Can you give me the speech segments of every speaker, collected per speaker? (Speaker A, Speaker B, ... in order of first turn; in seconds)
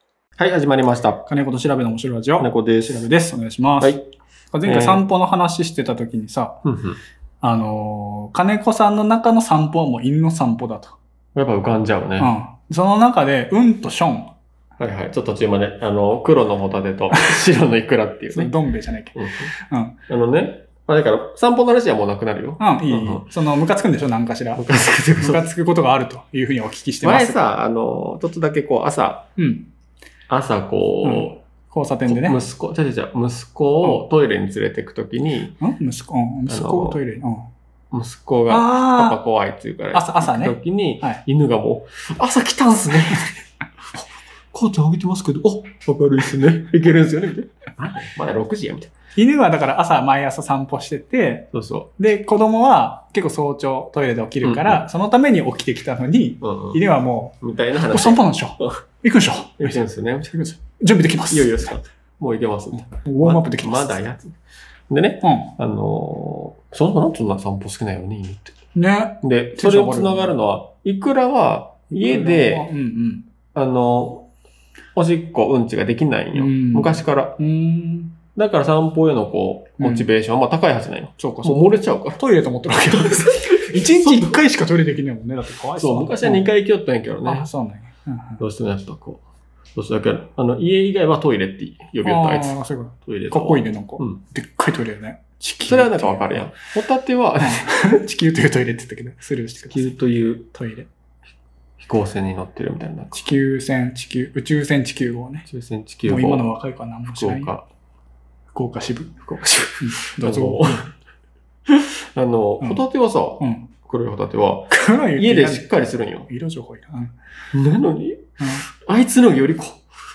Speaker A: 0.4-1.2, 2.4-3.0, 3.8-4.0, 4.6-5.0, 6.6-7.0, 11.3-12.3, 14.8-18.5, 19.1-19.5, 20.1-23.2, 24.5-25.4, 27.0-29.3, 30.3-31.4, 32.1-35.6, 36.5-37.0, 37.9-43.4, 43.9-48.9, 51.5-51.9, 54.4-54.9, 56.4-56.8, 57.4-58.8, 59.6-60.5, 61.3-64.4, 64.9-68.5, 69.2-72.7, 73.5-74.3, 75.0-77.4, 78.3-82.2, 82.7-84.4, 85.8-87.5, 88.4-89.2, 89.7-94.2, 95.7-97.8, 99.7-100.5, 101.8-103.2, 105.5-106.5, 107.0-107.7, 109.2-110.9, 111.7-116.3, 117.5-119.8
Speaker B: 1.2-4.0, 4.5-6.6, 7.4-11.0, 12.2-14.3, 17.2-17.4, 18.3-19.9, 22.6-24.6, 25.2-27.5, 29.4-29.7, 31.0-32.4, 35.6-37.5, 38.5-39.2, 39.9-41.2, 49.1-59.8, 60.3-61.7, 63.0-64.0, 65.2-65.5, 68.7-70.3, 71.9-73.2, 76.3-78.1, 79.8-80.1, 81.2-86.4, 87.2-88.4, 92.0-96.5, 97.4-99.9, 100.5-100.9, 103.1-105.5, 106.0-107.5, 108.5-109.2, 109.8-110.9, 113.4-113.7, 114.7-115.7, 116.3-117.1, 118.4-118.6